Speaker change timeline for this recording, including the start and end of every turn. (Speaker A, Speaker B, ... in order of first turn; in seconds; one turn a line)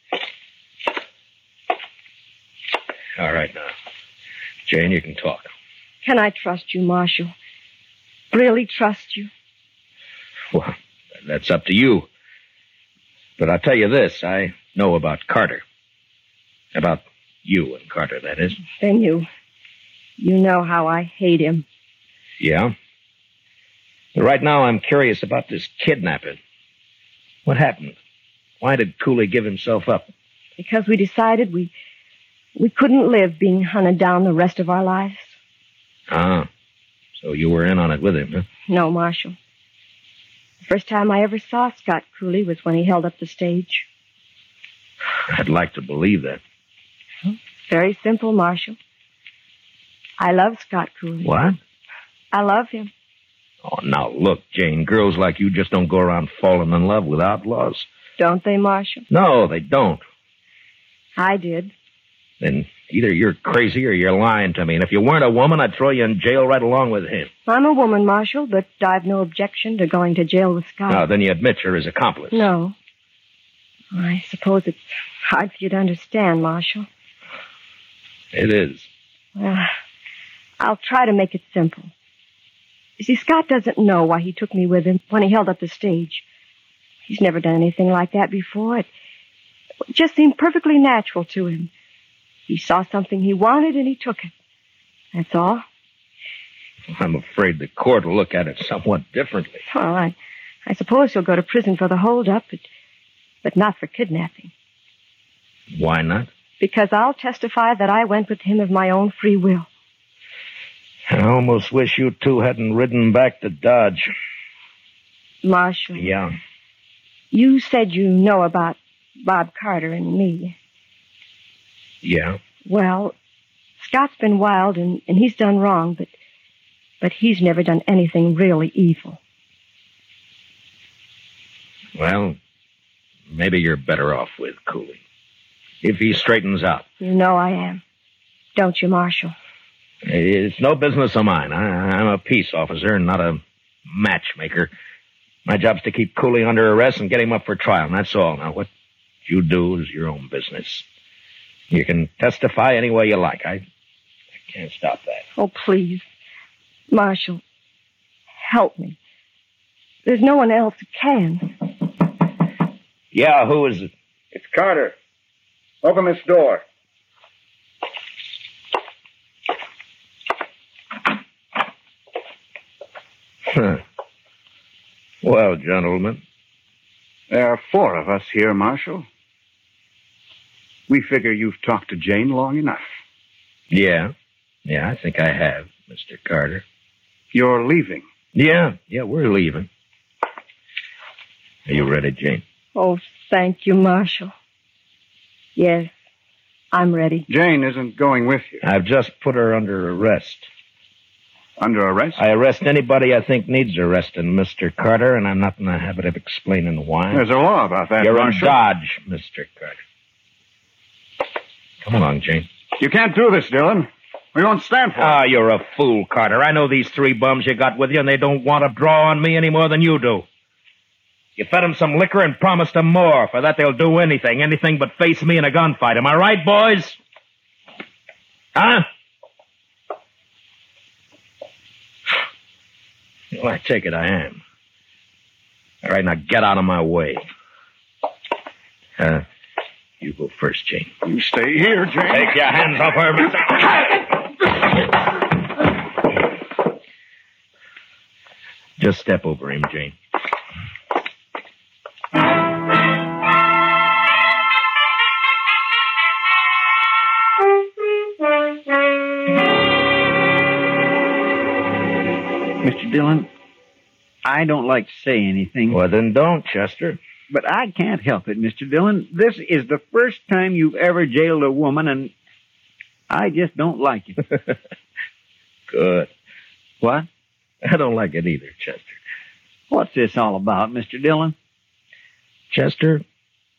Speaker A: 3.2-3.7
Speaker A: 4.7-5.5
Speaker B: 6.0-7.3
Speaker B: 8.3-9.3
Speaker A: 10.5-12.1
Speaker A: 13.4-15.6
Speaker A: 16.7-18.6
Speaker B: 18.7-19.3
Speaker B: 20.2-21.6
Speaker A: 22.4-22.7
Speaker A: 24.1-26.4
Speaker A: 27.4-28.0
Speaker A: 28.6-30.1
Speaker B: 30.6-31.7
Speaker B: 32.5-35.4
Speaker A: 36.1-36.5
Speaker A: 37.2-38.5
Speaker B: 38.7-39.4
Speaker B: 40.6-43.9
Speaker A: 45.3-46.4
Speaker B: 47.2-48.8
Speaker B: 50.2-51.3
Speaker A: 51.2-51.6
Speaker B: 52.3-52.9
Speaker A: 53.6-57.9
Speaker B: 58.2-59.0
Speaker A: 59.1-60.0
Speaker B: 61.2-61.7
Speaker A: 62.4-67.3
Speaker B: 67.5-71.0
Speaker A: 70.9-72.5
Speaker B: 72.3-72.7
Speaker B: 73.9-76.9
Speaker A: 78.3-78.9
Speaker B: 79.3-79.7
Speaker B: 80.6-81.9
Speaker B: 83.0-86.2
Speaker B: 87.1-88.9
Speaker B: 89.9-91.7
Speaker B: 92.5-94.3
Speaker B: 95.1-95.6
Speaker A: 96.9-99.6
Speaker B: 99.7-102.6
Speaker B: 103.4-104.5
Speaker A: 105.7-106.3
Speaker B: 106.6-109.7
Speaker A: 111.1-114.1
Speaker B: 115.4-116.1
Speaker A: 116.0-116.3
Speaker B: 117.3-120.5
Speaker A: 122.0-122.4
Speaker B: 122.7-123.1
Speaker B: 123.8-126.1
Speaker B: 127.0-129.2
Speaker A: 131.9-132.4
Speaker A: 133.3-135.0
Speaker A: 135.8-136.8
Speaker B: 137.0-137.8
Speaker B: 138.6-139.3
Speaker A: 140.0-144.7
Speaker A: 145.4-148.7
Speaker A: 149.2-150.8
Speaker A: 151.7-153.6
Speaker A: 154.4-155.2
Speaker B: 155.4-156.0
Speaker B: 156.9-157.4
Speaker B: 158.4-159.0
Speaker B: 160.0-161.5
Speaker A: 163.1-163.9
Speaker C: 164.3-164.9
Speaker C: 165.8-166.6
Speaker A: 173.5-173.8
Speaker A: 175.2-176.2
Speaker C: 177.3-179.0
Speaker C: 180.9-182.9
Speaker A: 183.7-184.1
Speaker A: 184.7-186.6
Speaker C: 187.3-188.0
Speaker A: 188.3-189.7
Speaker A: 191.7-192.4
Speaker B: 192.7-194.3
Speaker B: 195.6-195.9
Speaker B: 196.7-197.2
Speaker C: 197.3-198.6
Speaker A: 198.6-200.5
Speaker C: 201.6-202.2
Speaker A: 202.2-207.2
Speaker C: 207.1-208.6
Speaker A: 208.0-209.8
Speaker A: 211.8-212.5
Speaker C: 212.8-215.2
Speaker A: 215.0-220.2
Speaker A: 221.3-227.0
Speaker A: 228.5-228.9
Speaker A: 233.3-234.4
Speaker A: 235.8-237.2
Speaker A: 239.0-239.2
Speaker A: 240.0-240.9
Speaker C: 241.0-242.3
Speaker A: 242.1-243.9
Speaker A: 248.8-249.9
Speaker D: 262.6-263.3
Speaker D: 264.2-265.8
Speaker A: 265.7-267.0
Speaker D: 267.3-272.1
Speaker D: 273.1-274.2
Speaker A: 275.7-276.1
Speaker D: 276.8-277.1
Speaker A: 277.6-279.0
Speaker D: 279.7-281.3
Speaker A: 282.5-283.0